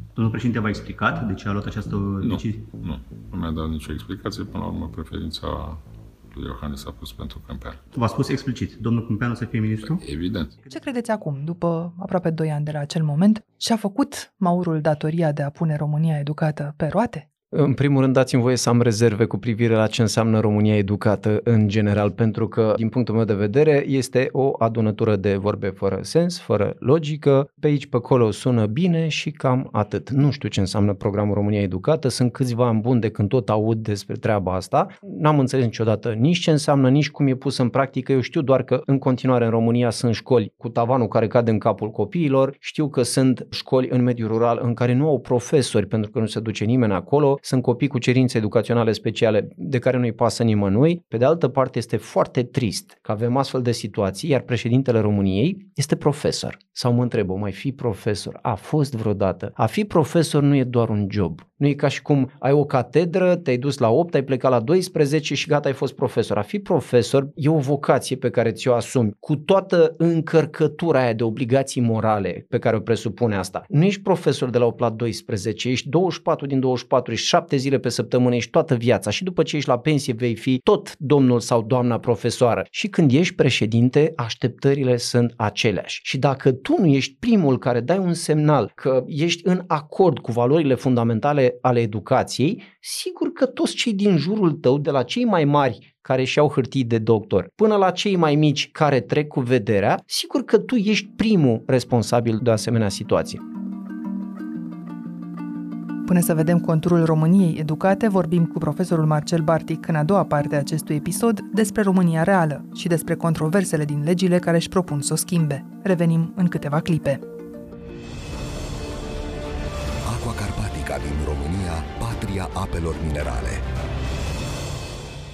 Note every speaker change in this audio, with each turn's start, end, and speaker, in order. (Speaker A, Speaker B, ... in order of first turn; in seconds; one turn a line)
Speaker A: 0.2-2.7
Speaker B: 2.2-7.8
Speaker A: 8.0-10.0
Speaker B: 9.8-10.5
Speaker C: 10.7-17.3
Speaker D: 17.5-103.4
Speaker C: 106.1-117.2
Speaker E: 120.0-123.7